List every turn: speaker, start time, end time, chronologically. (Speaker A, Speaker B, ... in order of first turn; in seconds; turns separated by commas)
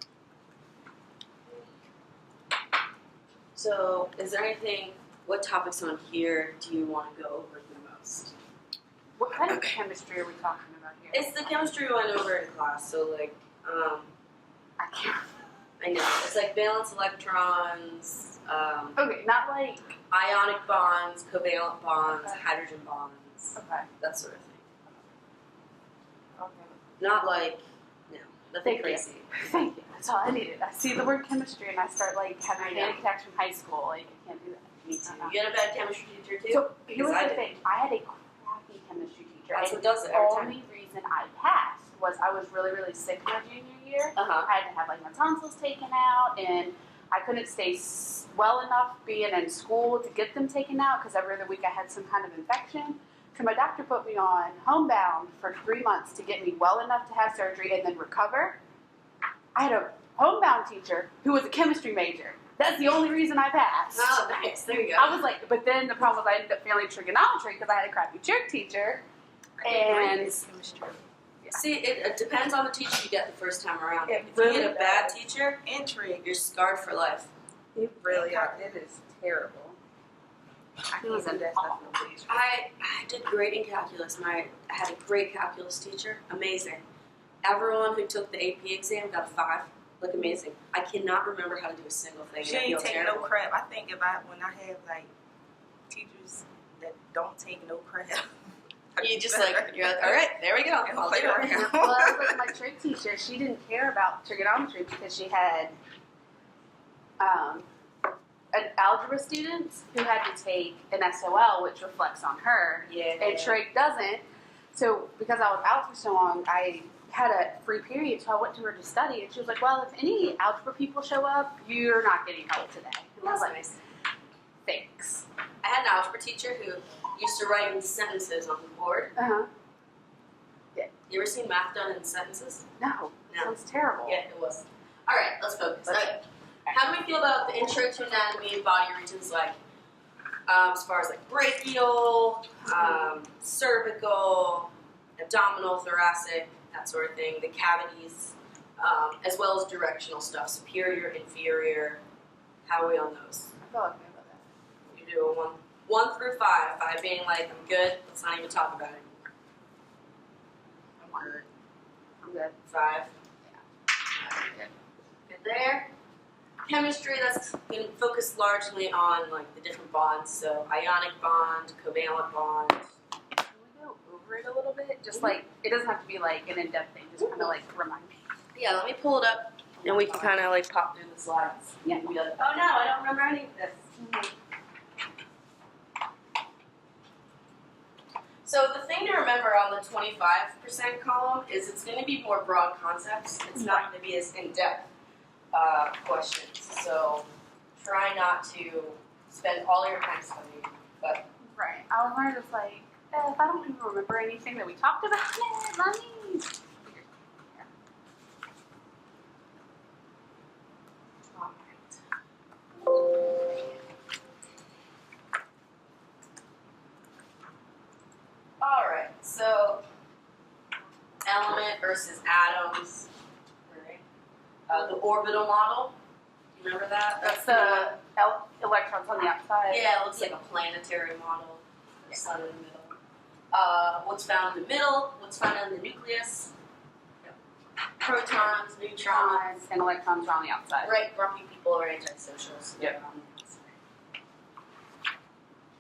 Speaker A: 3.5-8.3, Speaker B: 9.2-11.3, Speaker A: 9.4-9.8, Speaker A: 11.1-14.1, Speaker B: 14.8-15.3, Speaker A: 15.8-19.0, Speaker B: 19.0-19.9, Speaker A: 20.1-24.7, Speaker B: 22.1-22.4, Speaker B: 23.6-23.9, Speaker A: 26.4-29.6, Speaker B: 28.6-35.3, Speaker A: 32.6-33.0, Speaker A: 35.1-37.5, Speaker B: 36.5-58.6, Speaker A: 39.5-40.6, Speaker A: 44.2-44.5, Speaker B: 59.5-64.2, Speaker A: 63.9-65.2, Speaker B: 65.0-69.0, Speaker B: 69.6-70.4, Speaker C: 70.4-71.0, Speaker A: 71.5-75.6, Speaker B: 74.3-74.9, Speaker C: 75.7-76.2, Speaker A: 76.2-77.3, Speaker B: 77.8-79.8, Speaker C: 78.1-78.7, Speaker B: 80.9-82.2, Speaker C: 81.1-82.1, Speaker A: 82.2-86.8, Speaker A: 87.4-93.3, Speaker C: 92.4-95.1, Speaker C: 95.9-98.3, Speaker C: 99.0-100.2, Speaker A: 99.0-101.9, Speaker C: 100.8-102.3, Speaker B: 101.5-105.8, Speaker B: 107.2-107.7, Speaker B: 108.5-123.7, Speaker A: 112.8-113.6, Speaker A: 123.2-123.8, Speaker B: 124.7-125.3, Speaker A: 125.6-129.2, Speaker B: 129.2-129.5, Speaker A: 131.1-132.7, Speaker B: 132.8-134.2, Speaker A: 133.3-139.6, Speaker B: 135.9-136.2, Speaker A: 140.5-152.0, Speaker B: 142.7-143.1, Speaker A: 152.7-153.5, Speaker B: 153.6-154.5, Speaker A: 154.9-159.1, Speaker B: 161.0-161.5, Speaker B: 162.2-162.6, Speaker A: 162.7-163.1, Speaker A: 164.2-164.7, Speaker A: 165.3-165.9, Speaker A: 166.6-172.9, Speaker B: 173.5-178.2, Speaker A: 177.2-177.5, Speaker A: 178.6-183.8, Speaker B: 179.8-180.4, Speaker B: 184.0-184.3, Speaker A: 188.4-194.9, Speaker B: 193.6-193.9, Speaker A: 195.5-197.3, Speaker A: 197.8-201.3, Speaker B: 201.6-207.7, Speaker A: 211.3-212.0, Speaker A: 218.6-219.8, Speaker A: 221.2-223.1, Speaker A: 223.7-224.0, Speaker A: 224.7-226.0, Speaker A: 226.6-228.0, Speaker B: 227.2-230.3, Speaker A: 229.7-232.9, Speaker A: 233.5-236.5, Speaker A: 238.0-239.6, Speaker B: 239.0-240.9, Speaker A: 240.8-243.7